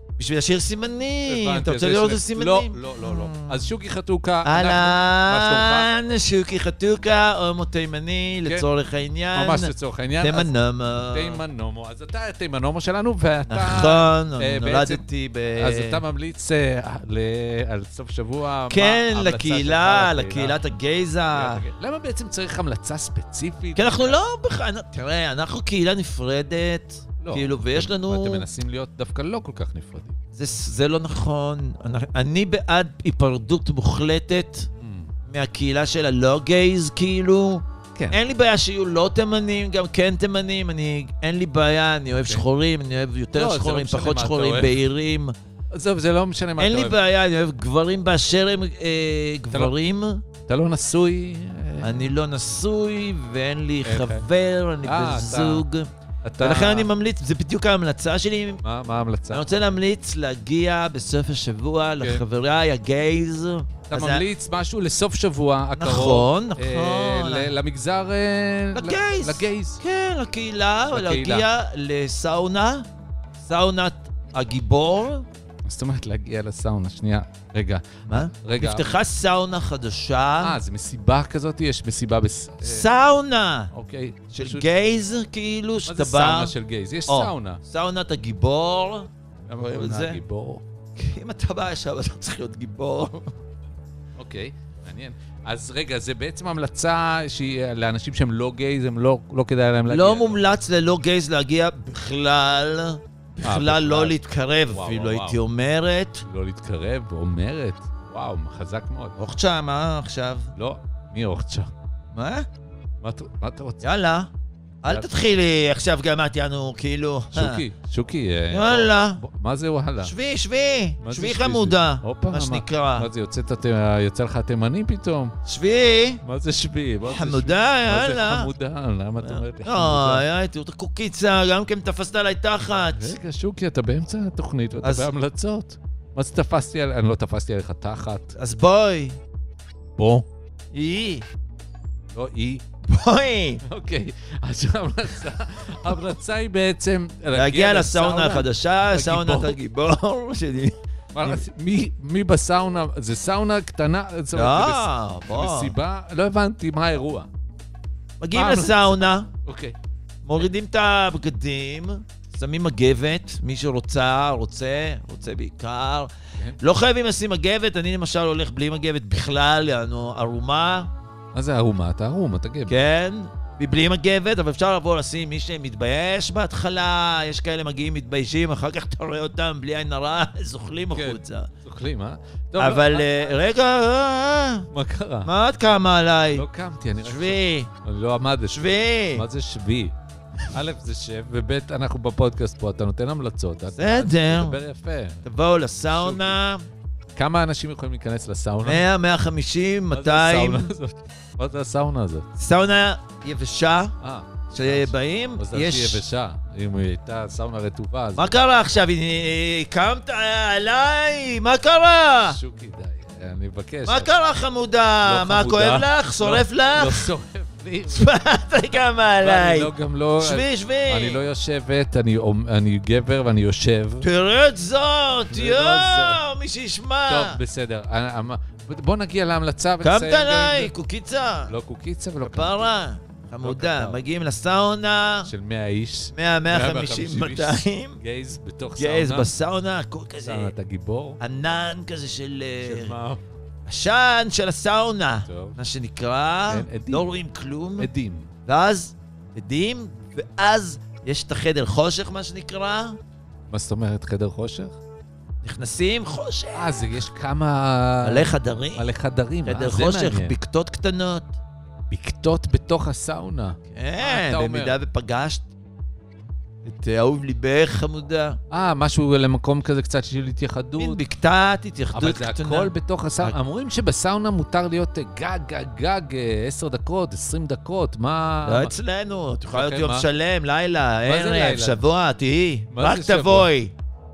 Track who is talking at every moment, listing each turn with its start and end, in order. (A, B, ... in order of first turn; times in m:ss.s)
0:00.2-0:03.7 A
0:01.3-0:05.9 B
0:04.4-0:09.7 A
0:09.3-0:10.5 B
0:10.2-0:11.4 A
0:11.1-0:15.0 B
0:13.5-0:16.0 A
0:15.6-0:20.6 B
0:18.7-0:21.6 A
0:21.3-0:24.2 B
0:23.8-0:28.4 A
0:27.2-0:30.2 B
0:30.3-0:34.7 A
0:34.8-0:35.1 B
0:35.3-0:45.3 A
0:43.3-0:44.8 B
0:45.7-0:47.0 B
0:46.6-0:50.2 A
0:50.5-0:52.1 B
0:51.8-0:55.9 A
0:53.8-0:54.2 B
0:54.8-0:55.6 B
0:56.2-0:56.9 B
0:56.4-0:58.6 A
0:58.6-0:59.6 B
0:59.3-1:04.2 A
1:03.9-1:09.8 B
1:05.8-1:07.5 A
1:08.7-1:12.8 A
1:10.9-1:11.5 B
1:13.4-1:15.2 A
1:15.6-1:18.9 B
1:18.1-1:20.6 A
1:20.4-1:22.9 B
1:22.6-1:23.7 A
1:23.7-1:24.7 B
1:24.3-1:26.5 A
1:25.8-1:27.6 B
1:27.1-1:29.1 A
1:29.5-1:30.6 B
1:29.7-1:30.2 A
1:31.0-1:33.3 A
1:34.2-1:40.4 B
1:39.9-1:46.2 A
1:43.4-1:44.2 B
1:44.7-1:45.4 B
1:46.2-1:49.2 B
1:49.2-1:50.5 A
1:50.6-1:51.7 B
1:52.1-1:52.4 A
1:53.0-1:53.8 B
1:53.8-1:54.3 A
1:54.8-1:57.6 A
1:57.3-2:00.1 B
1:58.5-1:59.2 A
2:00.0-2:03.1 A
2:01.0-2:05.3 B
2:05.4-2:06.2 A
2:06.2-2:10.2 B
2:07.1-2:08.5 A
2:09.2-2:13.1 A
2:12.9-2:18.3 B
2:14.8-2:15.1 A
2:18.4-2:19.2 A
2:20.0-2:20.3 B
2:20.7-2:21.2 A
2:22.1-2:22.6 B
2:22.9-2:23.6 A
2:23.6-2:29.6 B
2:27.3-2:31.4 A
2:31.1-2:37.3 B
2:34.3-2:35.7 A
2:38.2-2:39.3 A
2:38.3-2:39.8 B
2:40.2-2:50.9 A
2:51.3-2:52.8 B
2:52.7-3:01.5 A
3:00.9-3:03.4 B
3:02.6-3:04.6 A
3:04.7-3:05.3 B
3:05.2-3:06.4 A
3:06.3-3:09.9 B
3:07.0-3:07.7 A
3:08.5-3:09.2 A
3:10.5-3:15.2 B
3:13.7-3:14.6 A
3:15.2-3:16.6 A
3:15.9-3:16.3 B
3:17.1-3:18.8 B
3:18.6-3:20.7 A
3:19.9-3:22.3 B
3:22.4-3:23.9 A
3:24.0-3:28.4 B
3:24.5-3:26.0 A
3:28.2-3:32.4 A
3:32.2-3:34.2 B
3:33.9-3:37.1 A
3:35.0-3:38.1 B
3:37.9-3:41.2 A
3:39.2-3:44.1 B
3:44.0-3:47.4 A
3:45.3-3:46.2 B
3:47.1-3:50.7 B
3:49.8-3:51.5 A
3:51.5-3:52.7 B
3:52.2-3:55.3 A
3:53.4-3:54.0 B
3:55.2-3:59.3 B
3:56.1-3:58.0 A
3:58.8-4:00.5 A
4:00.2-4:01.2 B
4:01.2-4:03.0 A
4:02.6-4:03.2 B
4:03.7-4:07.9 A
4:05.3-4:05.6 B
4:06.5-4:07.1 B
4:07.8-4:08.3 B
4:08.4-4:13.0 A
4:13.5-4:14.8 B
4:15.4-4:16.8 A
4:16.5-4:20.3 B
4:18.0-4:18.8 A
4:19.4-4:21.3 A
4:21.9-4:24.8 B
4:23.7-4:25.4 A
4:26.6-4:28.4 A
4:28.5-4:31.0 B
4:30.8-4:33.3 A
4:31.9-4:38.7 B
4:38.4-4:43.7 A
4:39.5-4:40.1 B
4:41.0-4:41.8 B
4:42.7-4:43.5 B